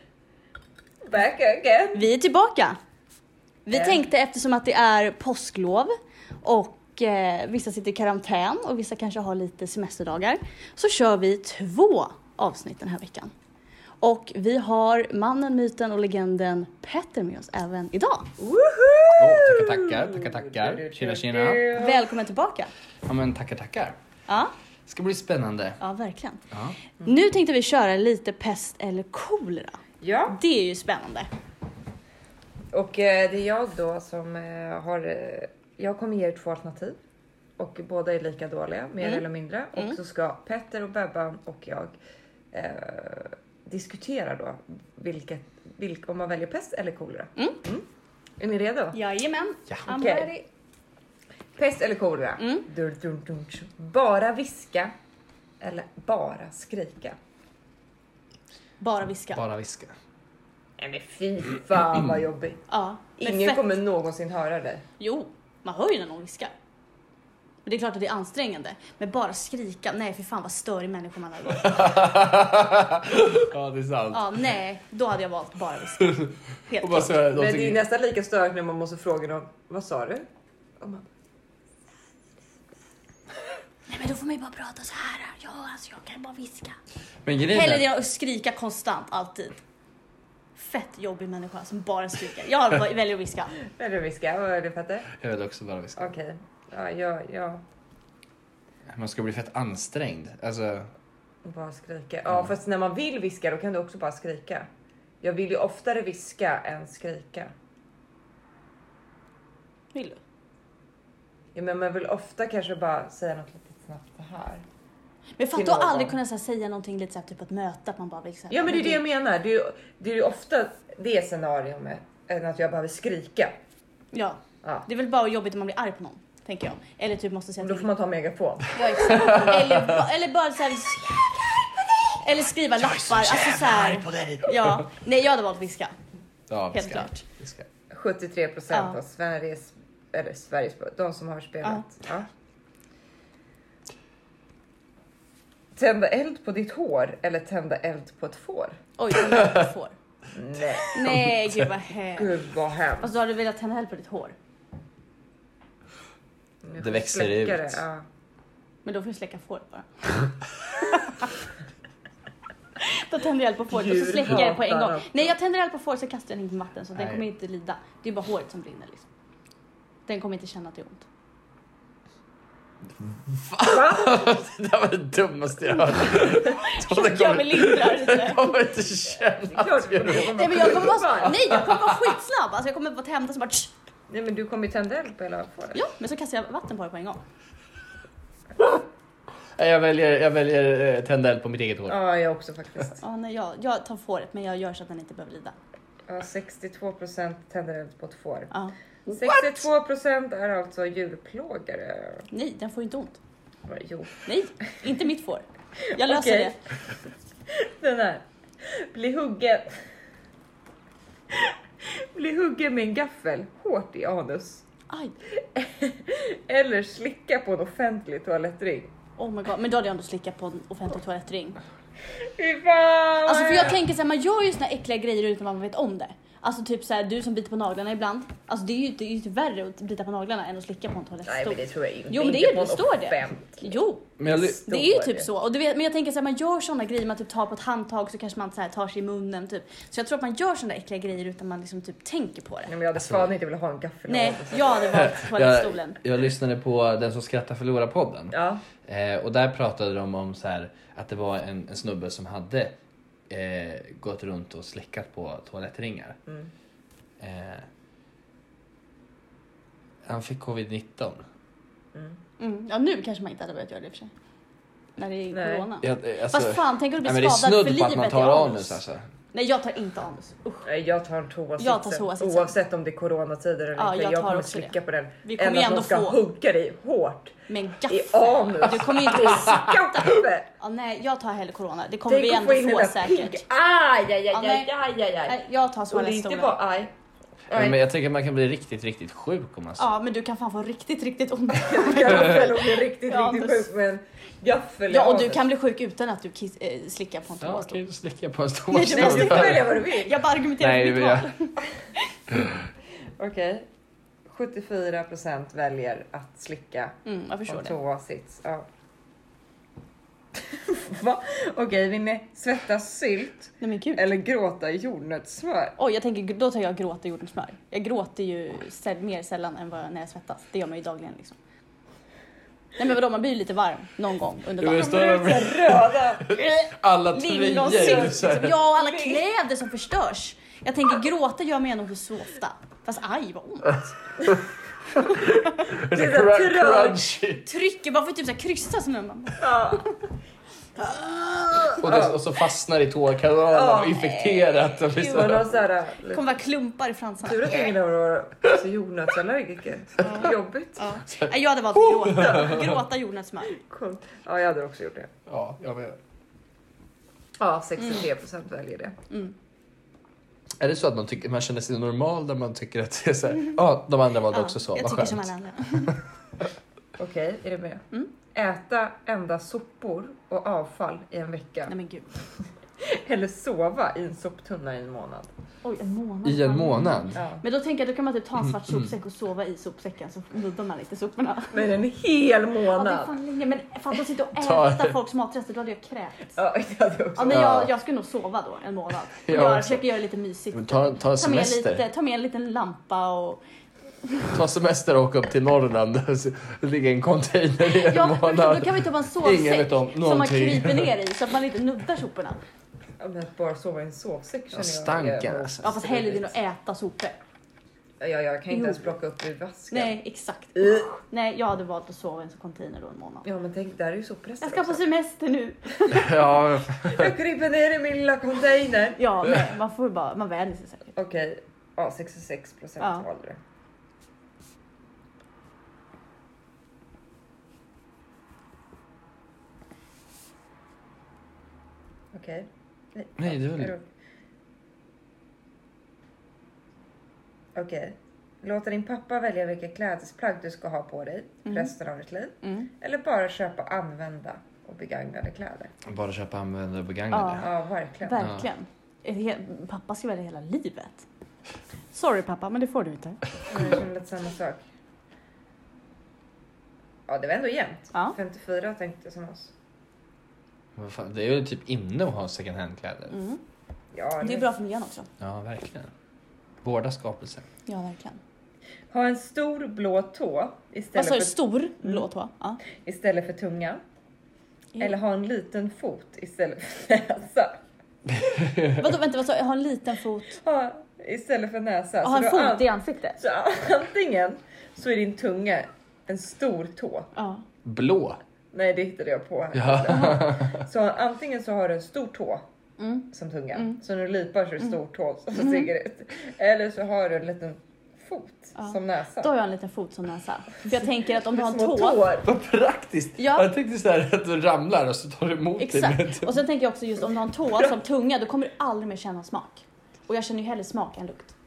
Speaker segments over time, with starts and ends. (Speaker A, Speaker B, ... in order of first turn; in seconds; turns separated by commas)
Speaker A: 1.0-2.0, Speaker B: 1.9-2.8, Speaker B: 3.6-13.3, Speaker A: 3.7-4.0, Speaker B: 14.0-18.3, Speaker A: 18.4-22.1, Speaker C: 19.2-21.7, Speaker B: 21.7-22.7, Speaker C: 23.0-23.9, Speaker B: 24.3-24.5, Speaker C: 24.9-25.8, Speaker B: 25.8-26.4, Speaker C: 26.5-26.8, Speaker B: 27.0-31.3, Speaker A: 30.0-30.4, Speaker A: 32.7-37.0, Speaker A: 37.6-41.9, Speaker B: 39.0-40.0, Speaker A: 42.5-47.9, Speaker B: 47.4-47.6, Speaker A: 48.4-49.0, Speaker B: 48.9-50.4, Speaker A: 49.9-50.3, Speaker A: 51.5-54.9, Speaker B: 52.4-52.7, Speaker A: 55.6-57.2, Speaker B: 58.8-59.4, Speaker C: 59.3-59.9, Speaker A: 60.8-62.6, Speaker B: 62.7-63.6, Speaker A: 63.2-64.8, Speaker B: 65.0-66.5, Speaker B: 67.6-72.1, Speaker C: 71.5-74.6, Speaker B: 74.1-77.2, Speaker C: 76.0-77.8, Speaker A: 77.3-80.2, Speaker A: 80.8-81.0, Speaker B: 83.9-86.8, Speaker C: 87.2-87.8, Speaker B: 87.5-89.6, Speaker B: 90.5-93.6, Speaker A: 93.6-95.1, Speaker C: 95.1-96.1, Speaker A: 96.0-97.6, Speaker C: 98.9-100.9, Speaker A: 101.4-104.7, Speaker A: 105.2-107.5, Speaker B: 109.9-110.2, Speaker A: 111.5-114.6, Speaker B: 115.4-119.0, Speaker A: 115.5-116.2, Speaker A: 118.5-123.6, Speaker B: 124.1-127.8, Speaker A: 127.6-129.4, Speaker B: 128.7-131.1, Speaker C: 129.2-130.0, Speaker B: 132.1-135.9, Speaker C: 132.8-134.8, Speaker C: 136.5-137.7, Speaker B: 136.7-137.2, Speaker A: 137.9-142.3, Speaker B: 138.7-139.0, Speaker A: 145.7-148.8, Speaker B: 149.0-149.9, Speaker C: 149.3-149.6, Speaker A: 150.3-151.1, Speaker B: 150.9-152.3, Speaker C: 151.0-151.7, Speaker A: 152.2-153.1, Speaker B: 153.0-154.3, Speaker A: 156.6-158.0, Speaker C: 156.8-157.8, Speaker B: 158.8-161.3, Speaker B: 162.8-169.1, Speaker A: 163.7-165.3, Speaker C: 166.9-167.2, Speaker B: 170.1-171.1, Speaker C: 173.0-182.1, Speaker A: 173.6-174.4, Speaker B: 176.3-178.6, Speaker A: 179.3-181.5, Speaker B: 180.0-183.7, Speaker A: 184.1-185.8, Speaker B: 185.7-187.2, Speaker C: 188.6-188.8, Speaker C: 189.6-192.0, Speaker A: 191.9-193.0, Speaker B: 193.0-195.6, Speaker A: 196.1-198.5, Speaker A: 199.1-202.2, Speaker C: 199.1-199.6, Speaker B: 202.3-203.2, Speaker A: 203.7-204.2, Speaker B: 204.2-206.6, Speaker A: 206.0-206.6, Speaker A: 207.5-209.8, Speaker A: 211.3-214.6, Speaker B: 214.9-215.2, Speaker A: 215.4-218.9, Speaker B: 219.2-221.6, Speaker A: 222.2-223.8, Speaker B: 223.2-242.7, Speaker A: 231.2-235.3, Speaker C: 234.2-234.7, Speaker A: 242.7-244.8, Speaker C: 243.0-243.3, Speaker B: 244.1-246.0, Speaker C: 244.9-252.8, Speaker A: 248.3-248.6, Speaker C: 253.3-256.2, Speaker C: 257.2-257.7, Speaker C: 260.0-261.2, Speaker A: 261.9-262.2, Speaker B: 262.4-264.1, Speaker B: 265.0-268.8, Speaker A: 265.3-265.6, Speaker C: 265.8-269.0, Speaker B: 269.3-270.7, Speaker A: 270.6-277.4, Speaker B: 271.6-272.5, Speaker B: 273.8-276.2, Speaker B: 277.5-283.4, Speaker A: 277.9-280.5, Speaker A: 282.1-285.4, Speaker B: 284.3-284.7, Speaker B: 285.2-286.6, Speaker A: 285.9-286.9, Speaker A: 287.5-287.8, Speaker C: 287.5-289.9, Speaker B: 289.8-293.7, Speaker A: 291.6-295.4, Speaker B: 294.9-297.8, Speaker C: 297.4-299.8, Speaker B: 298.7-302.0, Speaker A: 298.9-300.2, Speaker C: 300.6-301.3, Speaker A: 303.2-303.7, Speaker A: 304.2-308.7, Speaker B: 307.0-307.8, Speaker A: 310.6-315.8, Speaker B: 313.6-314.0, Speaker B: 315.8-321.4, Speaker B: 322.8-325.0, Speaker C: 324.6-328.5, Speaker A: 324.6-326.3, Speaker B: 327.1-333.9, Speaker A: 327.5-329.2, Speaker C: 334.9-337.4, Speaker B: 335.0-335.6, Speaker A: 335.8-337.1, Speaker B: 337.4-339.9, Speaker A: 339.4-339.9, Speaker B: 340.8-341.8, Speaker A: 341.6-342.2, Speaker C: 341.8-345.6, Speaker A: 343.5-344.1, Speaker B: 343.9-345.5, Speaker A: 345.0-346.2, Speaker B: 346.0-347.7, Speaker A: 347.2-350.9, Speaker B: 350.0-353.6, Speaker C: 351.2-352.6, Speaker A: 352.0-352.8, Speaker A: 353.5-355.1, Speaker C: 355.3-356.0, Speaker A: 357.4-359.0, Speaker C: 360.6-366.0, Speaker B: 364.3-366.0, Speaker A: 367.0-371.7, Speaker B: 371.7-372.1, Speaker A: 372.8-375.3, Speaker B: 375.6-381.6, Speaker C: 376.2-377.2, Speaker A: 377.1-377.4, Speaker C: 378.4-378.9, Speaker A: 381.5-383.2, Speaker B: 382.7-386.3, Speaker C: 384.4-384.9, Speaker A: 386.4-387.5, Speaker B: 387.1-393.4, Speaker C: 387.3-387.7, Speaker C: 389.2-389.8, Speaker C: 390.5-391.8, Speaker C: 394.3-400.9, Speaker B: 397.7-402.4, Speaker A: 403.0-406.3, Speaker C: 404.5-405.7, Speaker B: 405.6-407.2, Speaker A: 408.0-409.9, Speaker B: 408.5-408.8, Speaker B: 409.7-413.2, Speaker A: 410.6-411.0, Speaker A: 413.2-414.8, Speaker B: 414.4-416.2, Speaker C: 415.9-417.1, Speaker A: 416.8-419.0, Speaker B: 419.0-420.9, Speaker A: 420.9-423.4, Speaker B: 422.8-423.0, Speaker A: 432.1-433.8, Speaker C: 433.2-433.7, Speaker A: 437.5-445.7, Speaker B: 441.4-441.7, Speaker B: 442.4-442.7, Speaker C: 445.8-447.5, Speaker B: 447.1-447.4, Speaker A: 447.4-448.3, Speaker B: 448.0-451.1, Speaker C: 448.2-448.4, Speaker B: 451.9-453.2, Speaker A: 453.5-454.6, Speaker A: 457.1-459.5, Speaker C: 460.7-463.1, Speaker B: 463.1-463.4, Speaker A: 463.9-464.5, Speaker B: 464.2-465.1, Speaker C: 465.2-465.9, Speaker C: 466.6-467.4, Speaker B: 467.6-468.2, Speaker A: 468.9-472.0, Speaker B: 470.9-472.6, Speaker A: 472.8-473.8, Speaker A: 474.8-477.6, Speaker C: 478.1-478.8, Speaker B: 478.7-480.4, Speaker A: 480.4-482.7, Speaker B: 482.0-483.2, Speaker A: 483.2-487.1, Speaker B: 487.1-487.4, Speaker C: 487.6-488.2, Speaker A: 488.5-492.4, Speaker C: 489.5-490.6, Speaker B: 489.9-490.2, Speaker B: 492.8-493.8, Speaker A: 493.1-499.3, Speaker B: 495.4-495.7, Speaker B: 498.6-502.0, Speaker A: 500.8-502.3, Speaker C: 502.2-506.4, Speaker B: 503.2-503.5, Speaker B: 505.6-511.3